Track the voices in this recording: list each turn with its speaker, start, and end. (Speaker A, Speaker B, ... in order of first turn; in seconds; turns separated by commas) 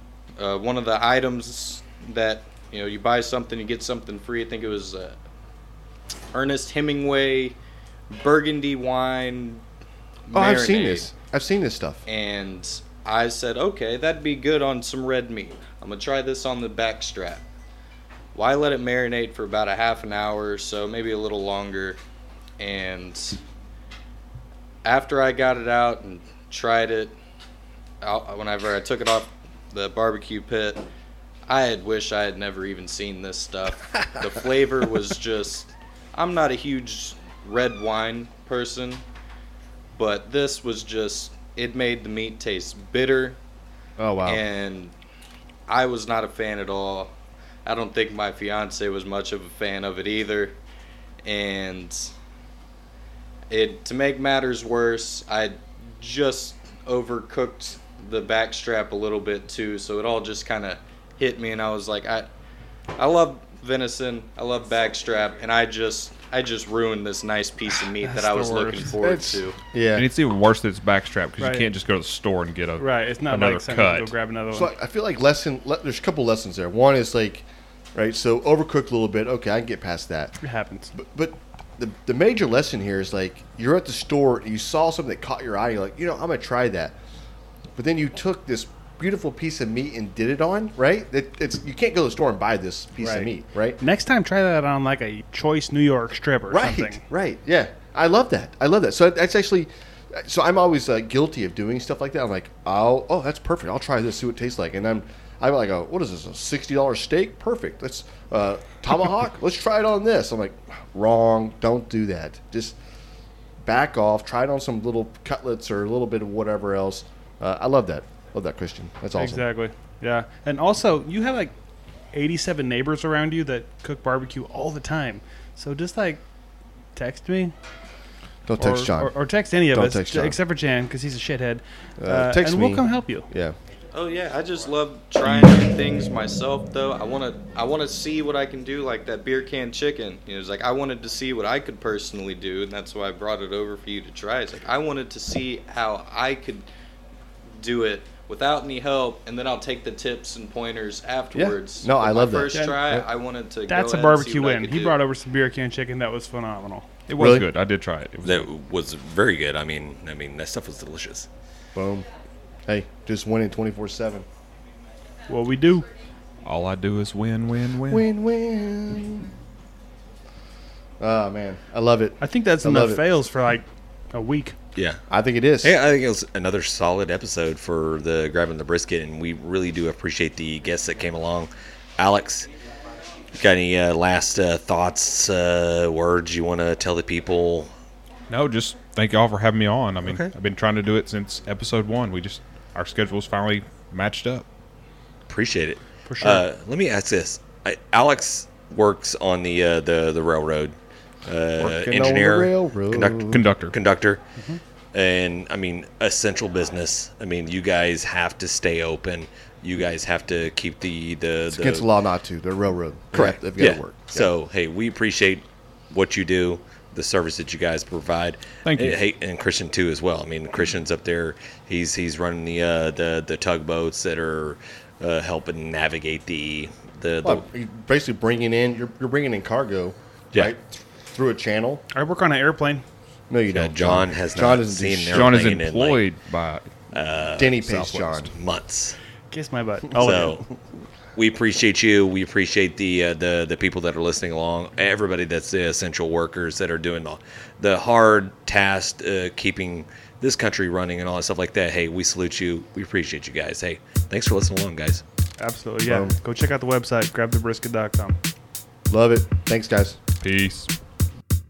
Speaker A: 0.4-5.2, Speaker A: 6.3-7.6, Speaker A: 8.1-9.6, Speaker A: 10.3-11.1, Speaker B: 10.3-12.0, Speaker A: 12.1-17.5, Speaker A: 18.3-22.0, Speaker A: 22.6-23.4, Speaker A: 24.8-27.1, Speaker A: 28.0-30.8, Speaker A: 31.5-39.0, Speaker A: 39.9-43.4, Speaker B: 44.0-44.4, Speaker A: 44.2-44.9, Speaker A: 45.7-47.1, Speaker A: 47.6-50.6, Speaker A: 51.2-52.1, Speaker A: 53.5-62.3, Speaker A: 63.0-69.6, Speaker C: 68.0-69.0, Speaker B: 69.0-70.1, Speaker D: 69.9-74.1, Speaker C: 71.4-71.7, Speaker C: 72.8-74.7, Speaker B: 74.5-80.3, Speaker C: 80.4-80.9, Speaker B: 80.9-87.0, Speaker B: 87.8-93.8, Speaker C: 93.0-97.0, Speaker B: 96.5-112.8, Speaker B: 113.6-119.5, Speaker C: 119.1-121.5, Speaker C: 122.1-126.2, Speaker C: 127.0-127.5, Speaker B: 128.4-129.1, Speaker C: 128.6-133.3, Speaker B: 129.7-130.4, Speaker B: 132.0-133.6, Speaker A: 133.9-146.7, Speaker A: 147.6-155.0, Speaker B: 151.3-153.1, Speaker C: 152.5-152.8, Speaker C: 153.7-156.9, Speaker D: 157.1-158.5, Speaker B: 157.2-157.5, Speaker E: 158.2-161.3, Speaker B: 161.7-162.1, Speaker B: 162.7-164.3, Speaker C: 165.3-165.9, Speaker D: 166.4-168.1, Speaker B: 167.9-169.3, Speaker B: 171.0-173.1, Speaker C: 172.2-174.6, Speaker E: 174.7-175.0, Speaker B: 175.1-175.8, Speaker E: 175.6-182.5, Speaker E: 183.3-187.7, Speaker D: 188.3-194.4, Speaker E: 190.0-190.3, Speaker E: 195.3-204.2, Speaker C: 196.1-196.4, Speaker B: 201.6-203.4, Speaker D: 203.3-203.7, Speaker E: 204.9-211.9, Speaker B: 211.5-214.3, Speaker E: 213.1-227.4, Speaker D: 218.7-219.0, Speaker B: 227.2-231.8, Speaker C: 231.9-232.8, Speaker B: 233.3-235.5, Speaker E: 233.5-236.0, Speaker D: 235.1-236.7, Speaker E: 236.9-239.0, Speaker B: 237.3-238.3, Speaker C: 239.3-240.4, Speaker E: 239.9-240.5, Speaker E: 241.1-255.0, Speaker C: 255.4-258.2, Speaker B: 255.9-256.1, Speaker B: 258.9-260.0, Speaker D: 260.2-260.7